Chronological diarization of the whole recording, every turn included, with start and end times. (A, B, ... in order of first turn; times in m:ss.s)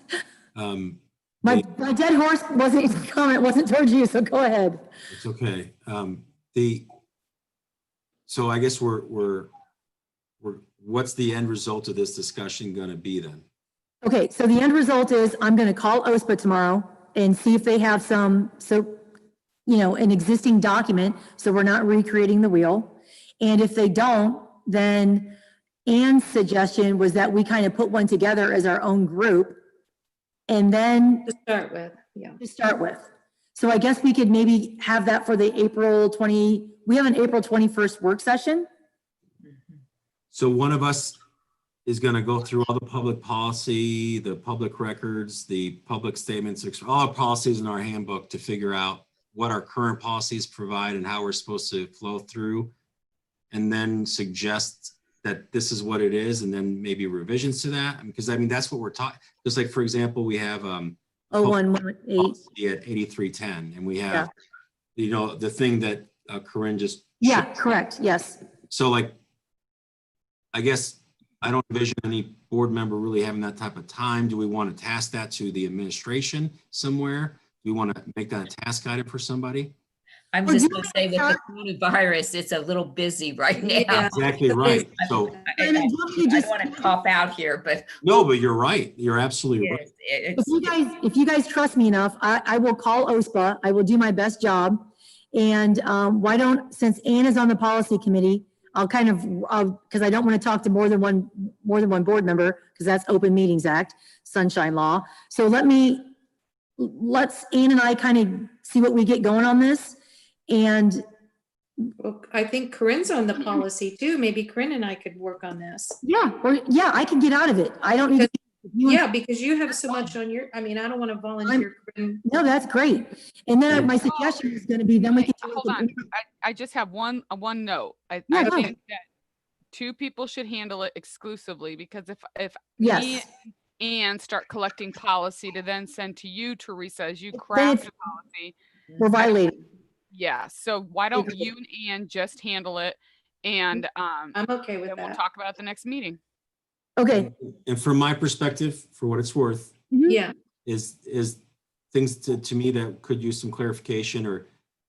0:00.5-0:01.6 A
0:01.4-0:04.8 B
0:05.1-0:06.9 A
0:08.3-0:09.5 A
0:10.4-0:13.4 A
0:14.0-0:19.0 B
0:19.6-0:29.6 B
0:30.5-0:31.3 B
0:31.3-0:32.4 C
0:32.4-0:38.7 B
0:40.3-0:41.2 A
0:41.8-0:52.7 A
0:53.5-1:01.6 A
1:01.3-1:02.4 B
1:02.2-1:04.3 A
1:05.0-1:07.5 A
1:07.2-1:08.4 B
1:08.7-1:09.2 A
1:10.5-1:19.7 A
1:20.3-1:28.0 D
1:20.4-1:21.4 B
1:23.6-1:24.8 C
1:23.9-1:25.3 A
1:25.6-1:26.9 B
1:28.0-1:29.8 A
1:29.6-1:30.7 D
1:30.4-1:46.1 B
1:46.8-1:50.0 B
1:50.5-1:51.0 B
1:52.0-1:56.0 C
1:56.0-1:59.0 B
1:58.8-2:02.2 C
2:02.2-2:06.0 B
2:03.9-2:04.5 E
2:05.0-2:09.0 E
2:08.3-2:08.7 B
2:09.7-2:18.5 E
2:12.8-2:13.3 B
2:17.4-2:17.8 B
2:19.0-2:19.6 B
2:20.1-2:26.2 E
2:24.3-2:25.2 C
2:27.0-2:27.3 B
2:27.1-2:29.7 A
2:29.9-2:30.2 B
2:30.1-2:30.3 C
2:30.6-2:31.4 A
2:31.9-2:34.5 A